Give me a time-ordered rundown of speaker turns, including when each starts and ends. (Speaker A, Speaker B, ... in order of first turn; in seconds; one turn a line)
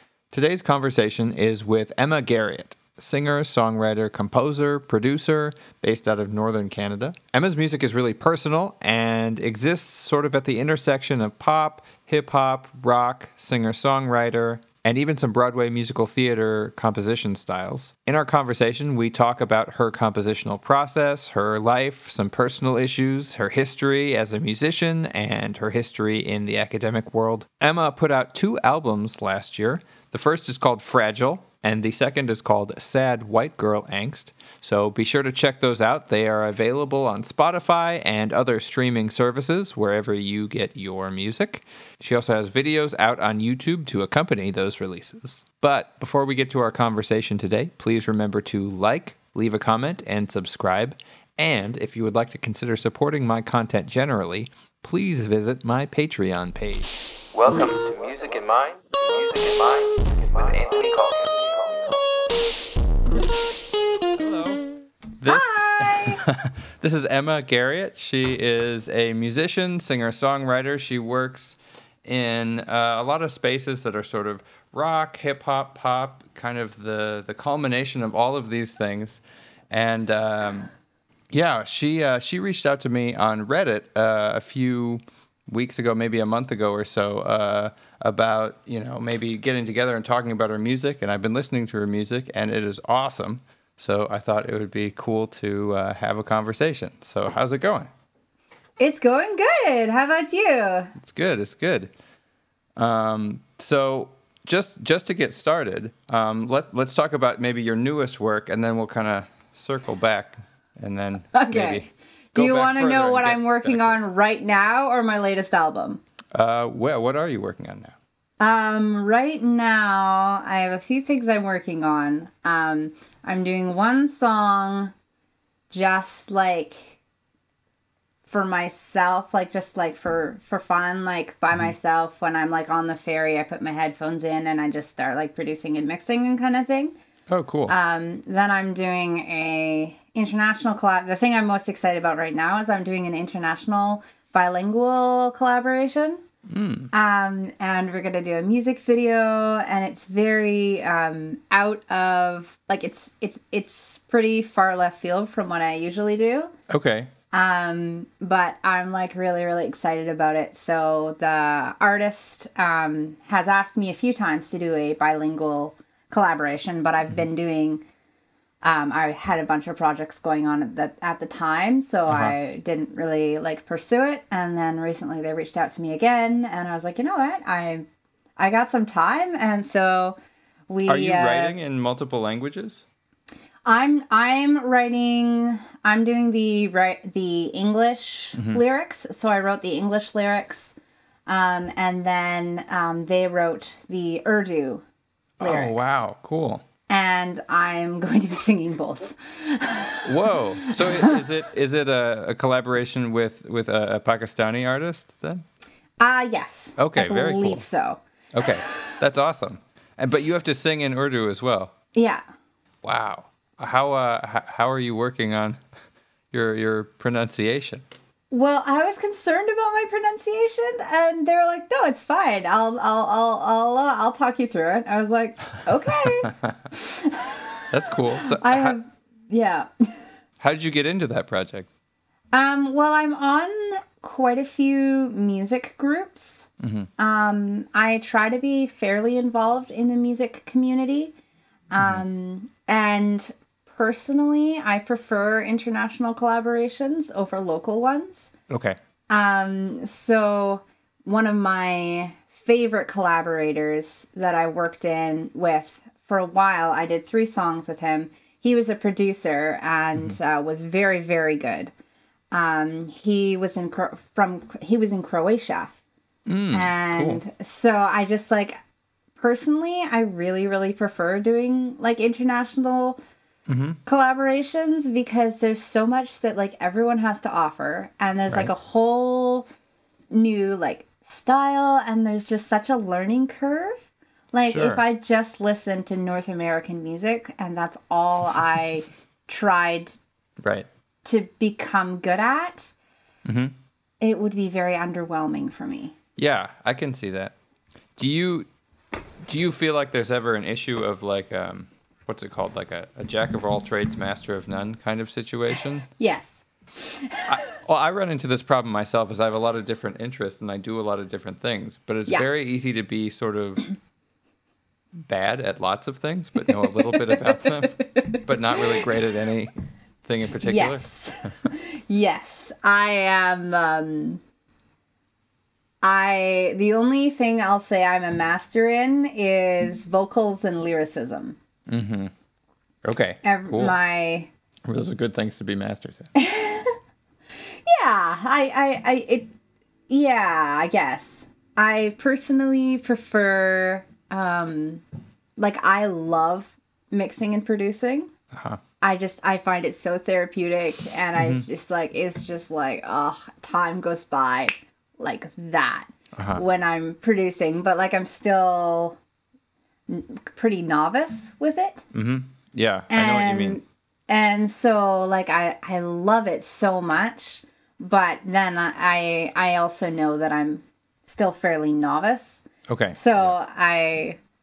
Speaker A: 0.3-61.7
Speaker A: 64.1-64.6
Speaker A: 65.2-80.7
Speaker B: 65.3-66.3
Speaker A: 81.3-97.9
Speaker B: 98.8-100.9
Speaker A: 101.0-101.9
Speaker A: 102.8-114.0
Speaker B: 111.3-116.0
Speaker A: 116.3-117.9
Speaker B: 118.4-124.9
Speaker B: 125.7-127.0
Speaker B: 128.3-136.9
Speaker A: 137.3-137.8
Speaker B: 137.7-146.2
Speaker A: 146.5-146.9
Speaker B: 146.9-156.5
Speaker A: 156.7-157.1
Speaker B: 157.3-167.8
Speaker B: 168.6-180.2
Speaker A: 172.1-172.3
Speaker B: 180.7-181.6
Speaker A: 180.9-182.8
Speaker B: 183.7-190.7
Speaker A: 188.4-188.6
Speaker B: 191.3-194.8
Speaker B: 195.4-196.0
Speaker A: 195.4-196.7
Speaker B: 196.9-201.2
Speaker A: 200.1-205.5
Speaker B: 206.0-208.8
Speaker A: 206.8-207.6
Speaker A: 208.3-211.7
Speaker B: 211.9-212.2
Speaker A: 212.8-215.6
Speaker A: 216.3-217.9
Speaker B: 218.3-230.2
Speaker A: 227.7-228.8
Speaker A: 230.4-231.7
Speaker B: 232.3-236.5
Speaker A: 236.6-236.9
Speaker B: 237.0-241.2
Speaker B: 241.7-248.3
Speaker A: 248.5-248.8
Speaker B: 249.1-261.7
Speaker B: 262.3-265.8
Speaker A: 266.3-267.2
Speaker B: 266.5-268.6
Speaker B: 269.2-273.0
Speaker A: 273.5-273.8
Speaker B: 273.9-279.5
Speaker B: 280.1-290.0
Speaker A: 284.5-284.8
Speaker A: 290.4-290.7
Speaker B: 291.1-292.7
Speaker A: 293.3-293.5
Speaker B: 294.0-295.9
Speaker A: 296.2-297.4
Speaker A: 298.0-298.5
Speaker A: 299.3-305.9
Speaker B: 305.9-307.4
Speaker A: 307.3-313.7
Speaker A: 315.0-319.5
Speaker B: 316.5-318.9
Speaker A: 320.0-321.3
Speaker B: 320.4-324.2
Speaker B: 325.8-331.4
Speaker A: 331.7-332.1
Speaker A: 332.9-333.8
Speaker B: 333.2-334.3
Speaker A: 334.7-336.1
Speaker B: 336.1-336.8
Speaker B: 337.4-339.3
Speaker B: 339.9-344.8
Speaker B: 345.4-348.1
Speaker A: 348.3-348.6
Speaker B: 348.8-359.0
Speaker A: 351.2-351.4
Speaker A: 356.2-356.4
Speaker B: 359.9-361.9
Speaker A: 361.9-363.6
Speaker B: 362.9-372.4
Speaker A: 372.7-373.3
Speaker B: 373.0-374.2